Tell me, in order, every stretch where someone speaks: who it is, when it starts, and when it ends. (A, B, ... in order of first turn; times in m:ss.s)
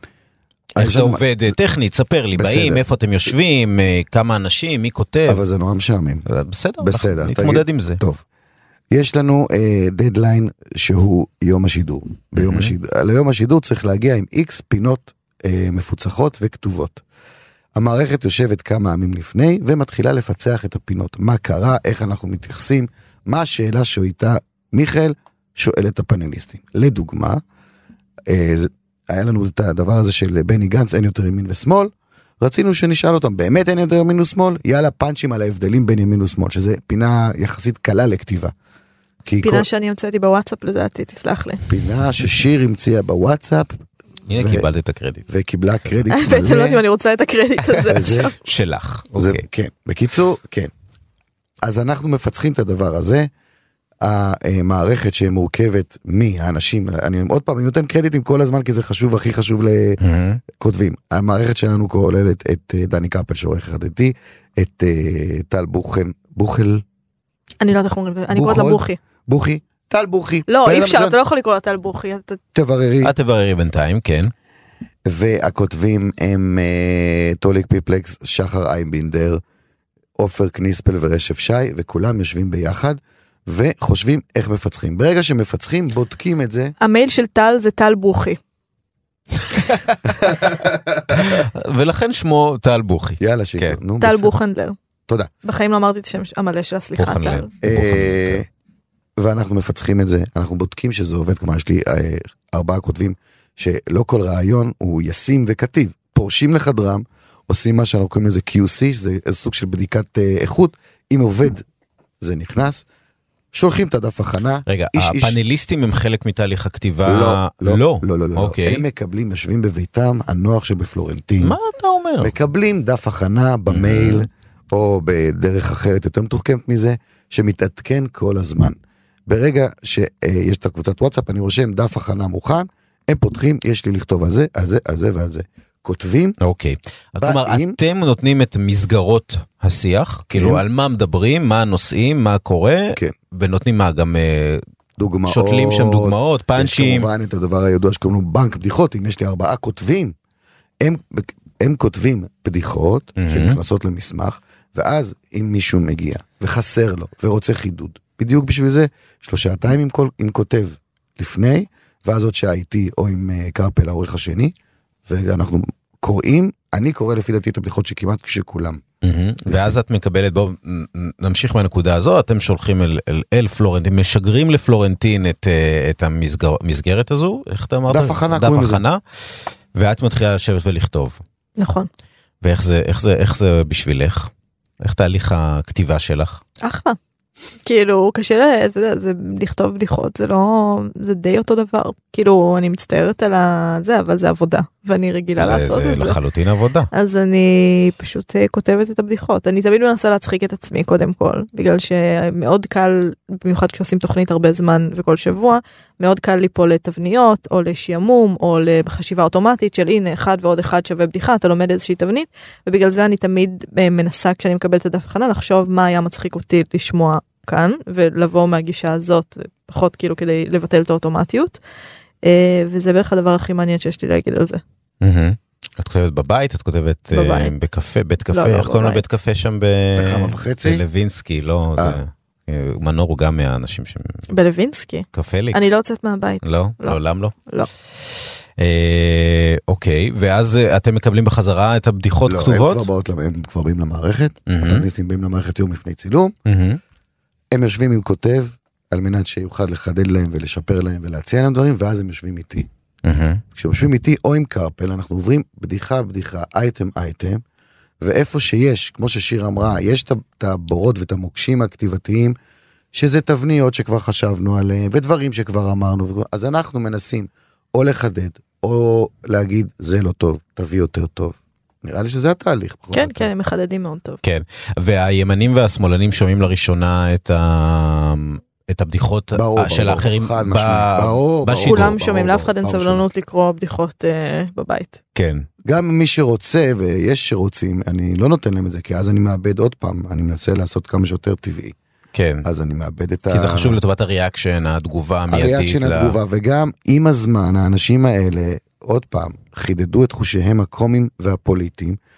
0:00.8-0:01.5 A
0:00.8-0:05.4 B
0:02.4-0:02.9 A
0:05.3-0:06.2 A
0:06.3-0:08.0 B
0:06.8-0:08.2 A
0:08.9-0:17.0 A
0:12.4-0:12.7 B
0:17.8-0:27.4 A
0:28.3-0:38.5 A
0:39.3-0:39.7 A
0:39.4-0:41.6 C
0:41.7-0:43.8 A
0:44.3-0:45.3 B
0:44.4-0:44.7 A
0:45.3-0:46.8 A
0:46.1-0:48.4 C
0:47.9-0:48.3 A
0:48.4-0:49.4 B
0:49.2-0:50.7 A
0:51.6-0:53.3 A
0:54.0-1:00.0 A
1:00.0-1:00.4 B
1:00.5-1:06.8 A
1:07.6-1:09.0 C
1:08.3-1:11.2 A
1:10.5-1:12.4 C
1:12.5-1:13.1 A
1:13.0-1:14.3 B
1:15.1-1:19.4 A
1:20.2-1:26.7 A
1:26.8-1:28.4 C
1:29.6-1:30.0 B
1:30.1-1:31.4 A
1:31.1-1:33.8 B
1:33.2-1:34.4 A
1:34.0-1:34.8 C
1:35.4-1:37.5 C
1:37.0-1:38.4 B
1:37.6-1:38.5 A
1:39.2-1:51.6 A
1:52.2-1:52.8 A
1:53.5-1:55.4 A
1:54.7-1:58.8 B
1:57.1-2:01.6 A
2:01.4-2:02.3 B
2:02.2-2:08.8 A
2:03.7-2:04.3 B
2:09.3-2:16.4 A
2:16.4-2:24.6 B
2:17.2-2:17.8 A
2:20.3-2:20.6 A
2:25.0-2:30.1 A
2:25.3-2:27.1 B
2:30.8-2:44.6 A
2:33.2-2:33.6 B
2:45.1-2:48.8 A
2:49.0-2:59.0 B
2:49.5-2:49.8 A
2:57.9-2:58.8 A
2:59.7-3:01.2 B
3:01.6-3:01.9 C
3:02.4-3:06.4 B
3:06.6-3:07.0 C
3:07.6-3:16.2 C
3:15.4-3:16.9 B
3:16.9-3:41.6 C
3:42.2-3:44.6 C
3:45.0-3:54.2 B
3:47.1-3:47.5 C
3:48.3-3:49.0 C
3:50.0-3:50.8 A
3:54.3-3:57.7 C
3:55.1-3:55.7 B
3:56.4-3:57.3 B
3:58.6-4:02.9 B
4:02.3-4:06.3 A
4:04.5-4:04.9 B
4:06.5-4:06.8 B
4:07.5-4:12.7 A
4:13.0-4:13.4 B
4:13.6-4:17.4 A
4:18.0-4:22.4 A
4:22.9-4:33.3 A
4:32.9-4:34.2 C
4:34.2-4:42.0 B
4:39.4-4:43.0 A
4:41.7-4:45.0 C
4:45.2-4:45.5 B
4:45.6-4:51.8 A
4:52.1-4:52.4 B
4:52.4-4:53.8 A
4:53.3-4:56.2 B
4:55.3-5:02.0 A